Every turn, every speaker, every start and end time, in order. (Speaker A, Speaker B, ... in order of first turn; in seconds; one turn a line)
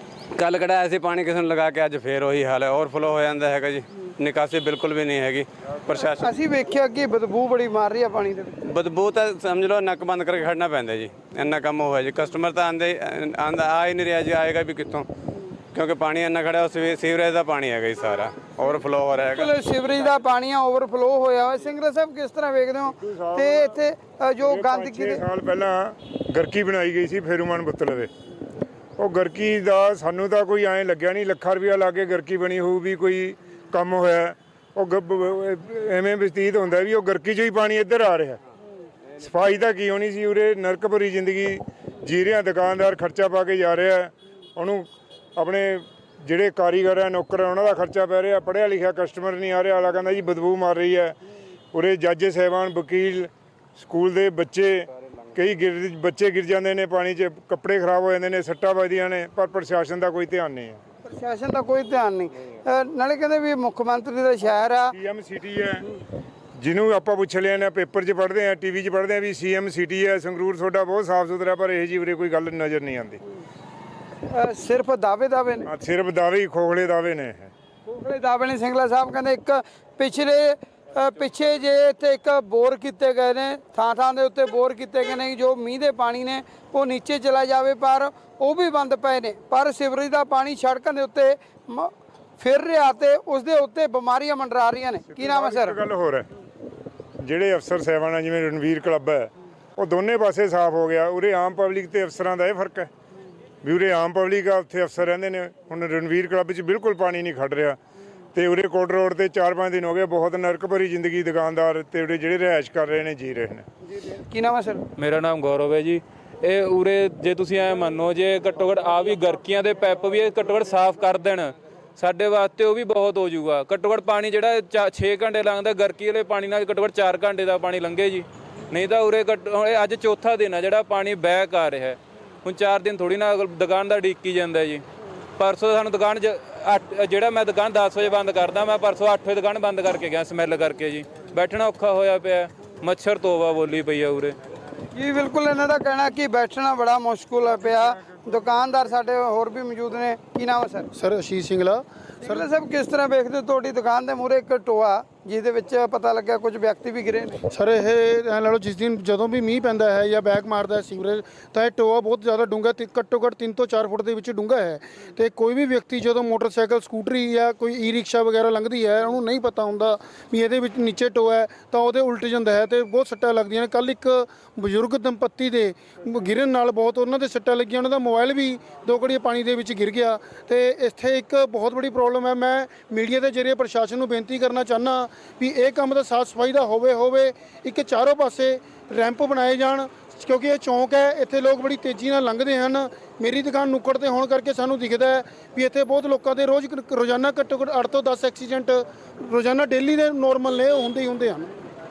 Speaker A: 0.4-6.2
Speaker B: 6.0-8.7
Speaker A: 8.7-15.1
Speaker A: 15.7-19.4
Speaker B: 19.3-25.2
Speaker C: 22.9-23.8
Speaker C: 24.4-28.1
Speaker C: 29.0-38.4
Speaker C: 39.2-51.1
Speaker C: 51.7-60.8
Speaker B: 61.0-64.9
Speaker C: 64.9-65.8
Speaker C: 66.6-73.2
Speaker B: 74.3-75.7
Speaker C: 75.7-77.5
Speaker B: 77.9-95.8
Speaker C: 95.1-96.3
Speaker C: 97.2-102.9
Speaker C: 103.6-107.8
Speaker C: 108.3-113.6
Speaker B: 114.0-114.8
Speaker D: 115.0-134.8
Speaker D: 135.4-144.3
Speaker B: 144.9-150.9
Speaker E: 150.9-152.4
Speaker B: 152.2-157.4
Speaker E: 157.5-201.5